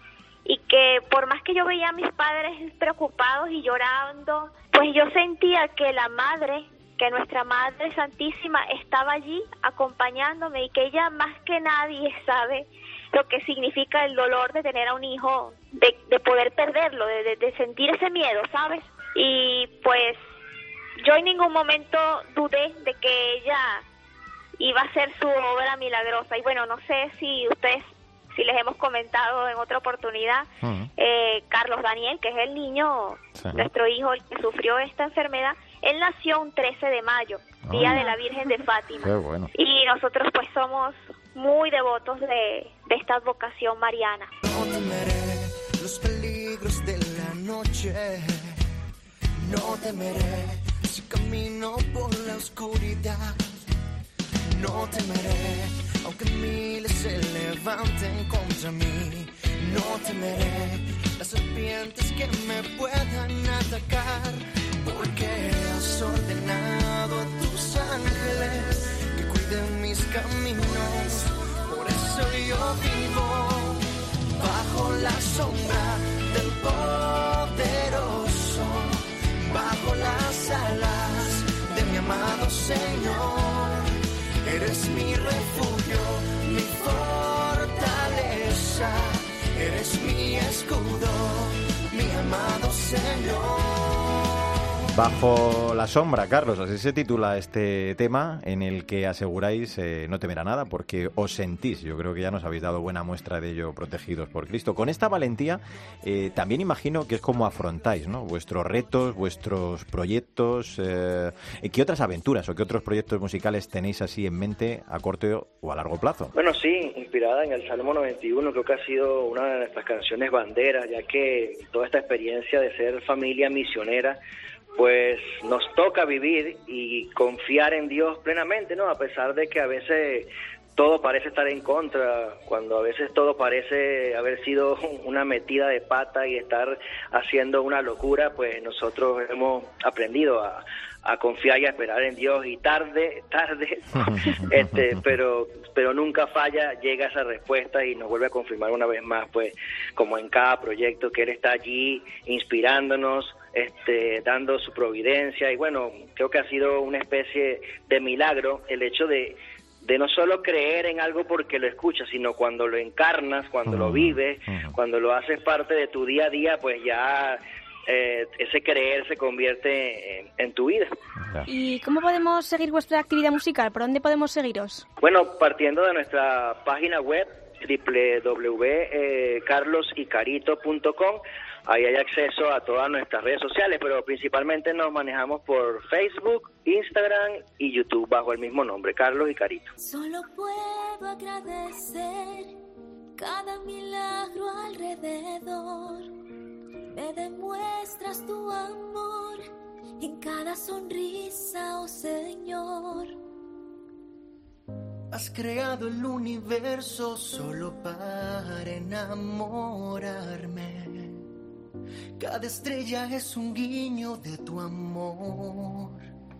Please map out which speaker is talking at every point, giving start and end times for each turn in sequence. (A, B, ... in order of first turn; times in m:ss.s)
0:00.4-0:20.2 A
0:21.0-0:23.8 A
0:24.6-0:44.3 A
0:30.6-0:30.9 B
0:33.3-0:33.6 B
0:37.6-0:38.0 B
0:39.0-0:39.5 B
0:44.4-0:48.5 C
0:49.4-0:53.4 C
0:54.5-1:13.8 C
1:14.3-1:23.9 C
1:24.4-1:34.4 C
1:34.9-1:56.3 B
1:56.4-2:04.2 D
2:04.8-2:50.9 D
2:24.1-2:24.4 B
2:43.6-2:44.8 B
2:51.2-2:51.5 B
2:51.5-2:54.8 E
2:55.0-3:09.7 D
3:09.8-3:12.6 F
3:13.2-3:16.1 F
3:16.9-3:19.5 F
3:20.0-3:23.2 F
3:25.1-3:31.2 C
3:32.2-3:36.0 C